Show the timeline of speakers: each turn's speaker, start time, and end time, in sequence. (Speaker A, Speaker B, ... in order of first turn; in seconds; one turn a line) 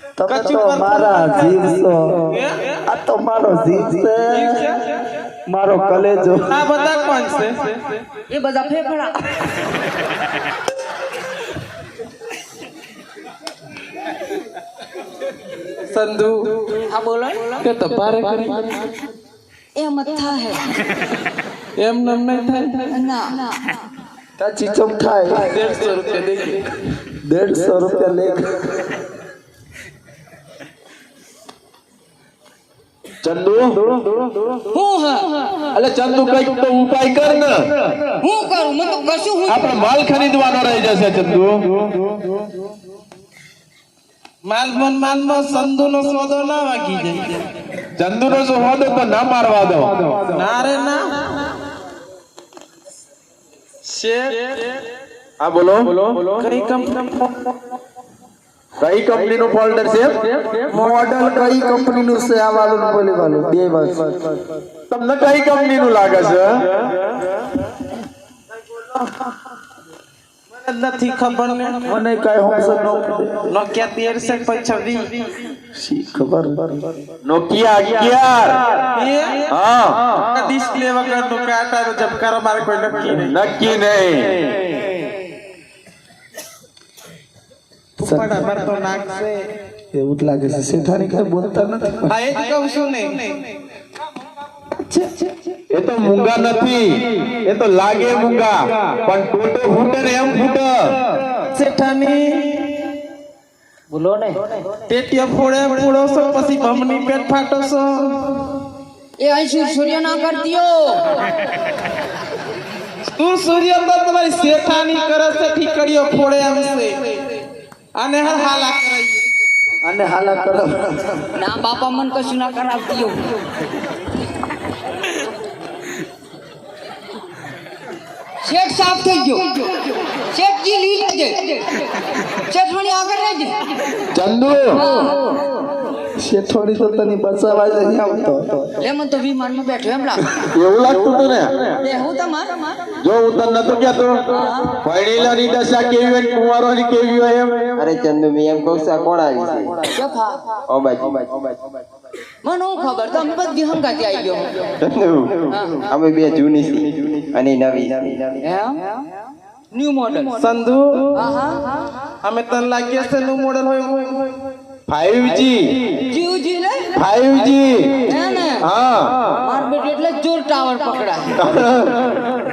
Speaker A: 0.2-2.3
Speaker B: 0.3-1.6
Speaker B: 2.3-2.8
Speaker A: 2.9-4.6
Speaker B: 4.3-5.0
Speaker A: 5.5-6.6
Speaker B: 6.5-8.0
Speaker C: 8.3-9.2
Speaker B: 15.9-16.7
Speaker C: 16.9-17.6
Speaker B: 17.6-18.8
Speaker C: 19.8-20.7
Speaker B: 21.8-22.9
Speaker C: 22.9-23.7
Speaker A: 24.4-25.5
Speaker B: 25.4-26.6
Speaker A: 27.2-28.6
Speaker D: 33.2-33.8
Speaker C: 34.7-35.4
Speaker D: 35.7-37.6
Speaker C: 38.2-39.8
Speaker D: 39.5-41.7
Speaker B: 44.4-47.4
Speaker D: 48.0-50.2
Speaker B: 50.3-51.5
Speaker B: 53.8-54.6
Speaker D: 55.4-56.2
Speaker B: 55.9-57.6
Speaker D: 58.8-60.3
Speaker B: 60.6-61.1
Speaker A: 60.7-64.3
Speaker D: 64.9-66.6
Speaker B: 70.6-71.8
Speaker A: 71.8-73.4
Speaker B: 73.5-75.3
Speaker A: 75.7-76.8
Speaker D: 77.2-78.6
Speaker B: 78.7-79.5
Speaker D: 79.5-80.1
Speaker B: 80.1-83.3
Speaker D: 83.1-84.5
Speaker A: 88.0-88.4
Speaker B: 88.0-89.5
Speaker A: 89.9-92.1
Speaker B: 92.0-93.4
Speaker B: 94.9-95.3
Speaker D: 95.7-101.0
Speaker B: 101.5-102.8
Speaker C: 103.9-104.4
Speaker B: 104.9-108.4
Speaker C: 109.2-111.2
Speaker B: 113.1-117.2
Speaker B: 117.9-119.3
Speaker A: 119.8-121.2
Speaker C: 121.3-123.4
Speaker C: 128.4-133.6
Speaker D: 134.1-134.8
Speaker C: 134.7-135.5
Speaker A: 136.2-138.7
Speaker C: 138.8-140.3
Speaker D: 140.5-141.7
Speaker C: 141.8-142.8
Speaker D: 143.0-144.2
Speaker C: 144.3-144.8
Speaker D: 144.8-147.7
Speaker E: 147.8-149.8
Speaker C: 149.9-150.4
Speaker E: 150.7-151.8
Speaker C: 152.4-154.7
Speaker E: 154.8-158.4
Speaker C: 155.5-155.9
Speaker C: 158.4-159.1
Speaker C: 159.7-160.4
Speaker B: 160.4-161.2
Speaker C: 161.1-161.7
Speaker B: 162.2-164.3
Speaker D: 164.9-165.8
Speaker C: 166.1-166.9
Speaker D: 166.9-169.1
Speaker C: 168.1-168.7
Speaker C: 169.3-171.4
Speaker D: 171.4-172.0